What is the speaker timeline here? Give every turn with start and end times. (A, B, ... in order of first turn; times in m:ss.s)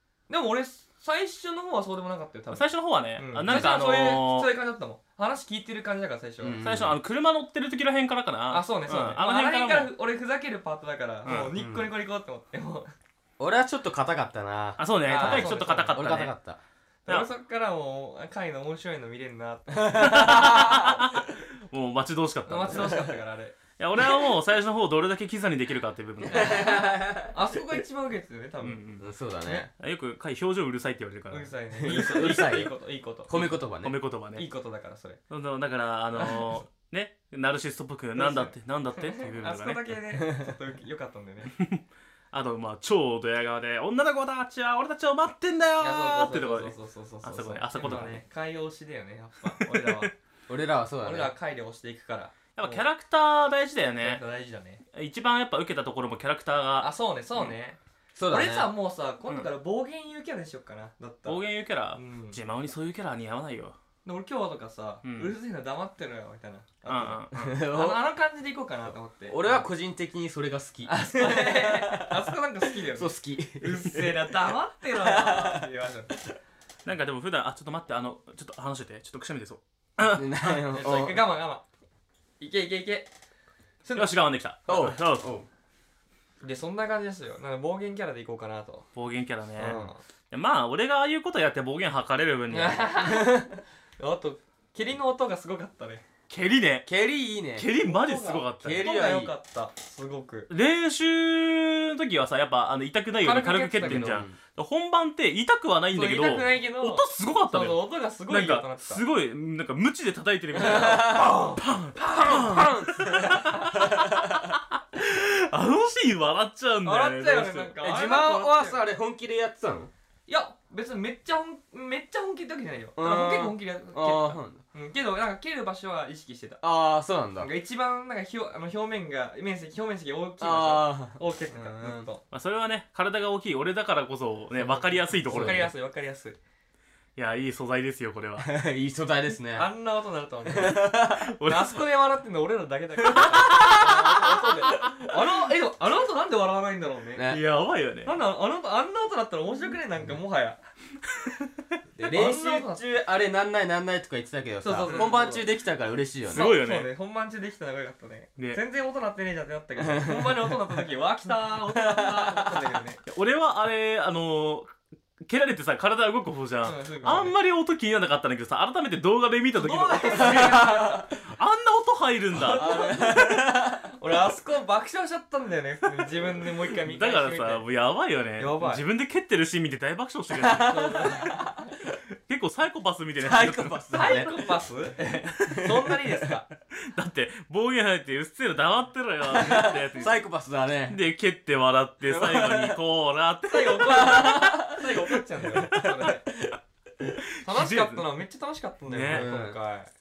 0:00.3-0:06.6 A
0:02.5-0:04.5 B
0:06.4-0:07.0 C
0:06.6-0:09.9 B
0:08.5-0:12.9 A
0:11.2-0:11.5 B
0:11.3-0:11.9 C
0:13.4-0:16.6 C
0:14.8-0:16.3 B
0:15.0-0:15.9 A
0:17.0-0:21.2 A
0:19.7-0:20.9 C
0:20.0-0:23.1 B
0:22.5-0:23.6 A
0:23.8-0:26.6 B
0:26.2-0:27.4 C
0:26.3-0:28.8 A
0:28.6-0:29.0 B
0:29.0-0:29.7 C
0:29.8-0:31.5 B
0:31.3-0:33.4 A
0:31.7-0:32.7 C
0:33.3-0:34.0 C
0:33.4-0:34.4 B
0:34.4-0:35.2 A
0:35.3-0:39.9 B
0:36.2-0:36.6 A
0:38.2-0:41.5 A
0:40.1-0:40.5 C
0:41.4-0:48.2 B
0:45.8-0:50.1 A
0:49.6-0:50.1 B
0:50.5-0:51.3 C
0:51.0-0:52.8 A
0:52.6-0:54.2 B
0:54.0-0:54.8 A
0:54.9-0:57.5 B
0:56.8-0:57.8 A
0:58.2-0:58.7 C
0:58.3-1:01.4 A
1:01.2-1:03.8 B
1:01.9-1:02.4 A
1:04.0-1:09.7 A
1:05.0-1:05.3 B
1:06.8-1:07.3 B
1:07.3-1:08.0 C
1:09.3-1:12.3 C
1:10.9-1:16.2 A
1:12.8-1:15.6 C
1:16.8-1:20.5 B
1:20.1-1:21.2 C
1:20.5-1:21.6 A
1:22.4-1:23.1 A
1:23.8-1:24.2 A
1:23.9-1:25.3 B
1:24.7-1:25.4 C
1:26.4-1:28.9 A
1:28.9-1:33.3 B
1:29.6-1:30.0 A
1:32.5-1:36.0 A
1:36.3-1:36.9 B
1:36.8-1:37.7 C
1:37.6-1:38.9 B
1:37.8-1:40.5 A
1:38.6-1:39.3 C
1:40.5-1:57.8 B
1:43.2-1:44.2 A
1:43.8-1:44.4 C
1:45.9-1:49.0 A
1:50.6-1:54.5 C
1:50.6-1:51.6 A
1:56.8-1:58.9 A
1:57.8-1:59.9 C
2:00.3-2:06.6 A
2:03.0-2:04.6 C
2:06.6-2:07.5 C
2:07.4-2:12.2 A
2:10.4-2:12.1 C
2:12.3-2:15.7 B
2:14.6-2:15.7 C
2:15.2-2:16.4 A
2:17.2-2:18.5 B
2:18.4-2:19.7 C
2:19.5-2:27.3 A
2:20.4-2:21.3 C
2:21.2-2:21.8 B
2:23.0-2:25.3 C
2:23.2-2:23.8 B
2:27.1-2:27.4 C
2:27.2-2:28.1 B
2:28.0-2:30.6 A
2:32.0-2:36.5 C
2:32.0-2:32.8 A
2:34.6-2:35.5 A
2:34.8-2:35.2 B
2:36.3-2:43.0 A
2:36.3-2:36.9 B
2:39.8-2:40.6 C
2:41.7-2:42.7 C
2:43.1-2:53.2 B
2:46.6-2:47.3 A
2:49.5-2:51.1 A
2:50.1-2:51.0 C
2:52.4-2:57.6 A
2:52.5-2:53.9 C
2:56.8-3:01.3 B
2:58.4-2:58.8 A
3:00.6-3:01.7 A
3:00.7-3:01.4 C
3:02.3-3:03.7 B
3:03.2-3:04.5 C
3:03.3-3:06.5 A
3:05.5-3:05.9 C
3:06.8-3:10.2 B
3:09.3-3:11.0 C
3:10.9-3:14.8 B
3:12.1-3:12.8 C
3:13.5-3:16.3 A
3:13.9-3:14.8 C
3:15.7-3:16.1 B
3:15.8-3:16.1 C
3:17.2-3:18.1 B
3:17.4-3:19.9 A
3:18.9-3:19.3 B
3:19.1-3:19.6 C